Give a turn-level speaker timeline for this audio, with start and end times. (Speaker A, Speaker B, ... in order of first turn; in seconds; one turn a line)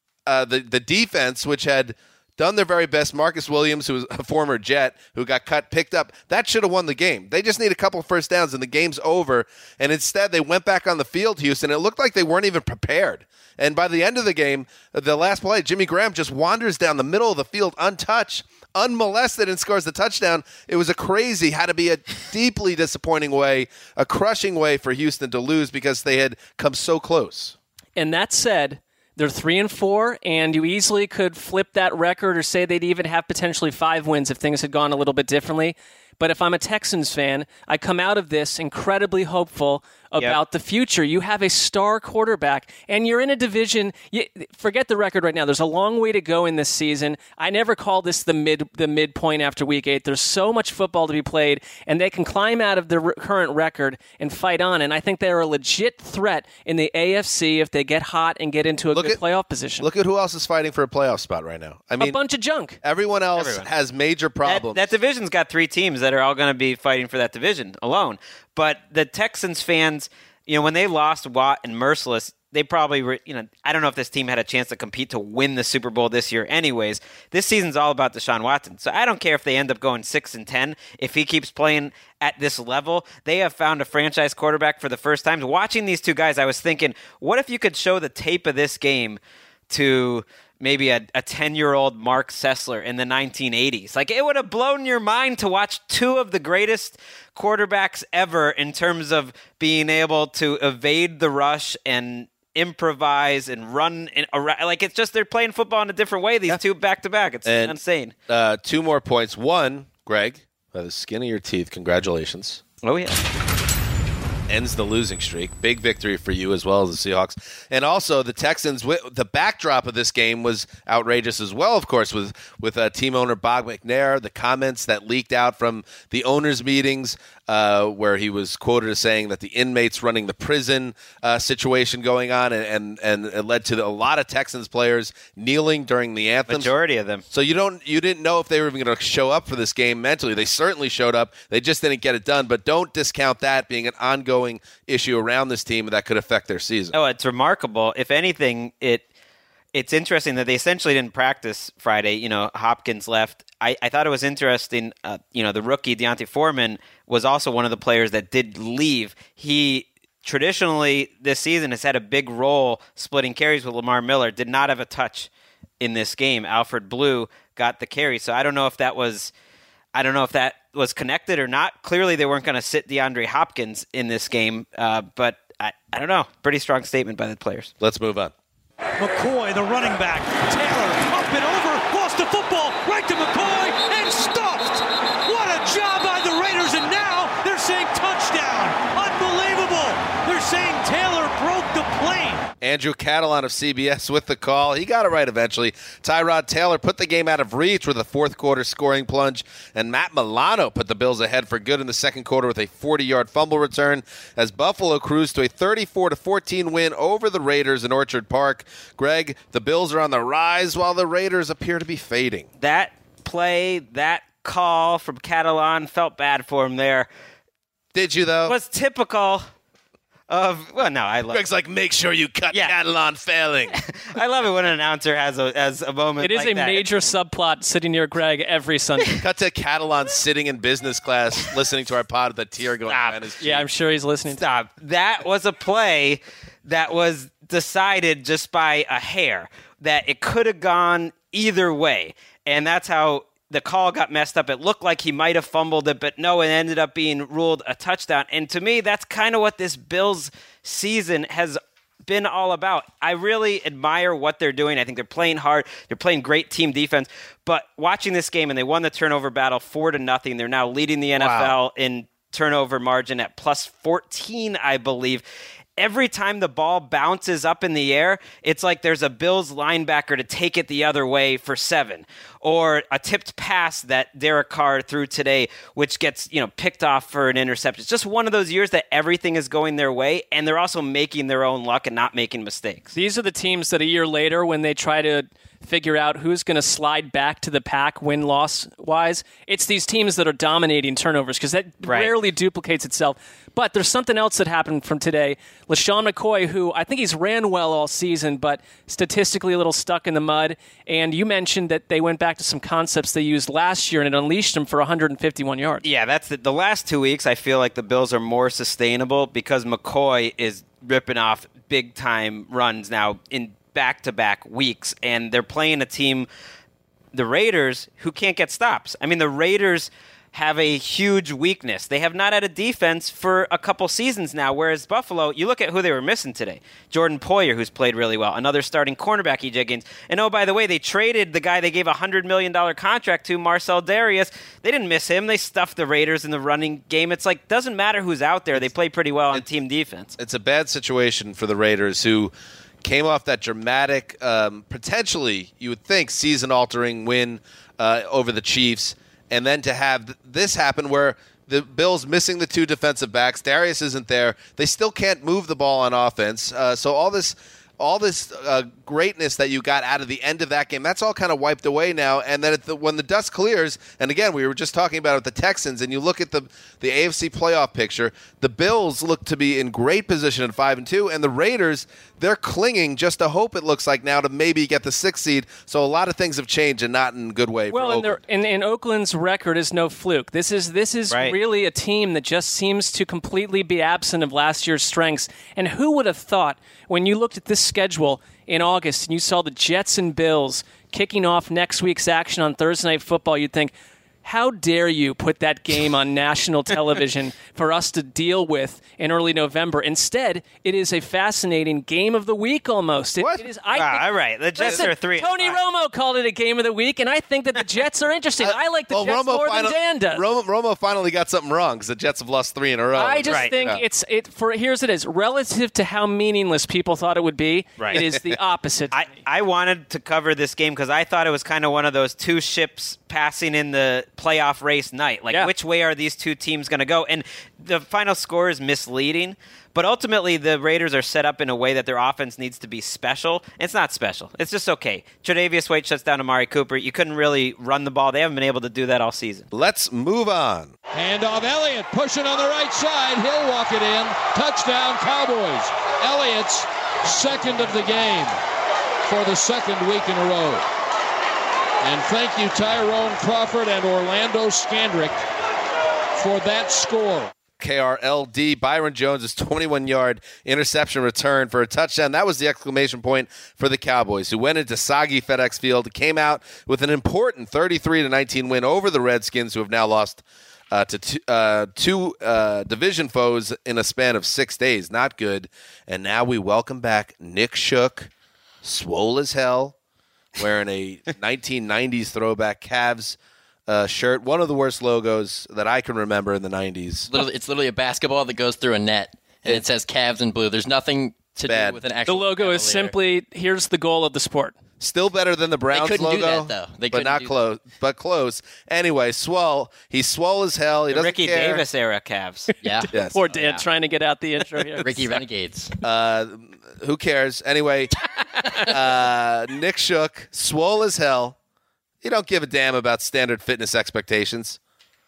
Speaker A: 0.2-27.6
Speaker B: 27.9-59.9
Speaker A: 58.9-59.2
Speaker A: 59.8-62.2
Speaker B: 62.0-62.8
Speaker A: 62.8-64.9
Speaker C: 63.4-63.7
Speaker C: 64.5-108.1
Speaker A: 107.5-107.7
Speaker A: 108.3-112.6
Speaker C: 112.8-113.2
Speaker A: 114.5-136.7
Speaker C: 136.5-137.2
Speaker A: 137.3-146.9
Speaker C: 146.9-149.0
Speaker C: 149.7-165.3
Speaker C: 165.8-169.3
Speaker C: 169.9-177.7
Speaker A: 177.8-178.3
Speaker D: 179.0-192.5
Speaker A: 192.6-212.5
Speaker C: 212.6-217.1
Speaker A: 217.9-218.5
Speaker C: 218.4-219.5
Speaker C: 220.3-221.4
Speaker A: 221.3-223.8
Speaker C: 223.7-226.8
Speaker B: 226.2-229.1
Speaker A: 229.2-233.7
Speaker C: 232.9-233.2
Speaker B: 233.4-234.4
Speaker C: 234.3-265.2
Speaker A: 261.1-261.5
Speaker C: 265.8-282.9
Speaker B: 282.9-305.8
Speaker C: 291.8-292.1
Speaker C: 305.8-316.3
Speaker C: 317.1-340.1
Speaker A: 340.2-378.2
Speaker B: 377.7-393.7
Speaker B: 394.2-404.1
Speaker A: 403.2-403.4
Speaker C: 403.7-405.6
Speaker B: 404.6-410.2
Speaker A: 404.6-404.9
Speaker A: 408.4-413.8
Speaker B: 412.9-419.1
Speaker A: 417.9-418.2
Speaker C: 418.9-439.5
Speaker A: 439.5-440.7
Speaker E: 440.9-448.4
Speaker E: 449.0-450.6
Speaker E: 451.8-455.2
Speaker E: 456.2-457.3
Speaker A: 457.6-478.1
Speaker A: 478.6-479.8
Speaker A: 480.4-487.1
Speaker F: 487.1-492.9
Speaker A: 491.4-491.8
Speaker B: 492.1-494.5
Speaker A: 494.8-501.6
Speaker F: 495.7-497.4
Speaker C: 500.9-502.5
Speaker F: 502.6-503.6
Speaker A: 502.9-503.2
Speaker B: 502.9-505.2
Speaker F: 504.8-505.7
Speaker A: 505.8-507.9
Speaker A: 508.6-511.4
Speaker A: 512.0-514.6